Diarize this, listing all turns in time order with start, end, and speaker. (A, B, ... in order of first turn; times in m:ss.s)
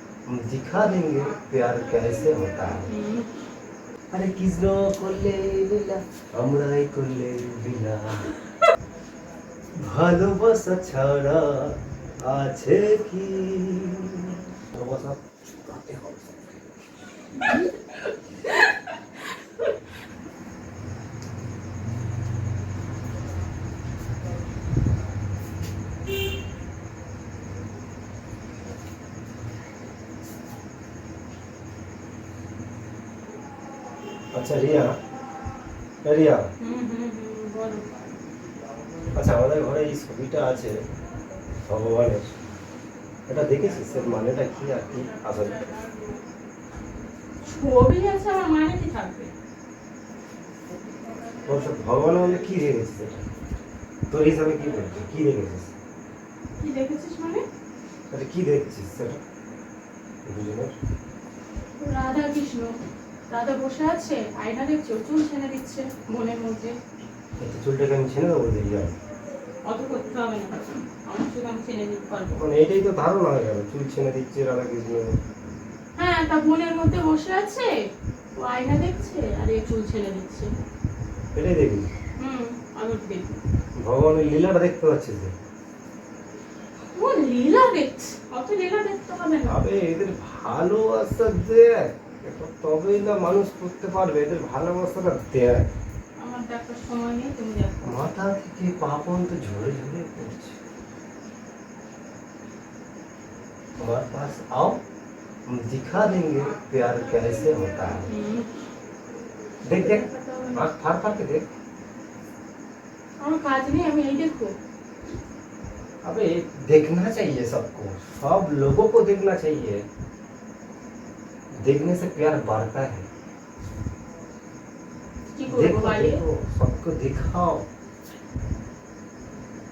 0:00.3-0:02.9 A
0:02.9-0:03.3 B
0:04.1-0:08.3 A
0:09.8-0:16.5 A
0:34.3-0:34.9 A
0:36.0-0:36.4 A
0:36.6-0:37.9 B
0:39.1-0:40.8 A
0:41.6-0:42.3 A
0:43.3-0:45.8 A
0:47.4-0:49.3 B
0:51.4-0:53.2 A
0:54.1-0:55.7 A
0:56.6-0:57.4 B
0:58.1-0:59.2 A
1:00.2-1:00.7 A
1:01.8-1:02.7 B
1:03.3-1:06.8 B
1:07.4-1:09.0 A
1:09.6-1:12.4 B
1:12.3-1:15.2 A
1:16.0-1:17.8 B
1:18.4-1:20.5 B
1:21.3-1:21.9 A
1:22.2-1:23.4 B
1:23.8-1:25.3 A
1:26.9-1:29.6 B
1:29.4-1:35.7 A
1:36.2-1:38.0 B
1:37.8-1:40.6 A
1:43.8-1:44.8 A
1:45.5-1:48.1 A
1:48.1-1:48.5 B
1:49.6-1:50.0 A
1:49.7-1:50.6 B
1:50.5-1:51.5 A
1:53.2-1:54.5 B
1:56.0-1:59.8 A
2:01.6-2:03.1 A
2:05.3-2:06.2 B
2:05.5-2:07.6 A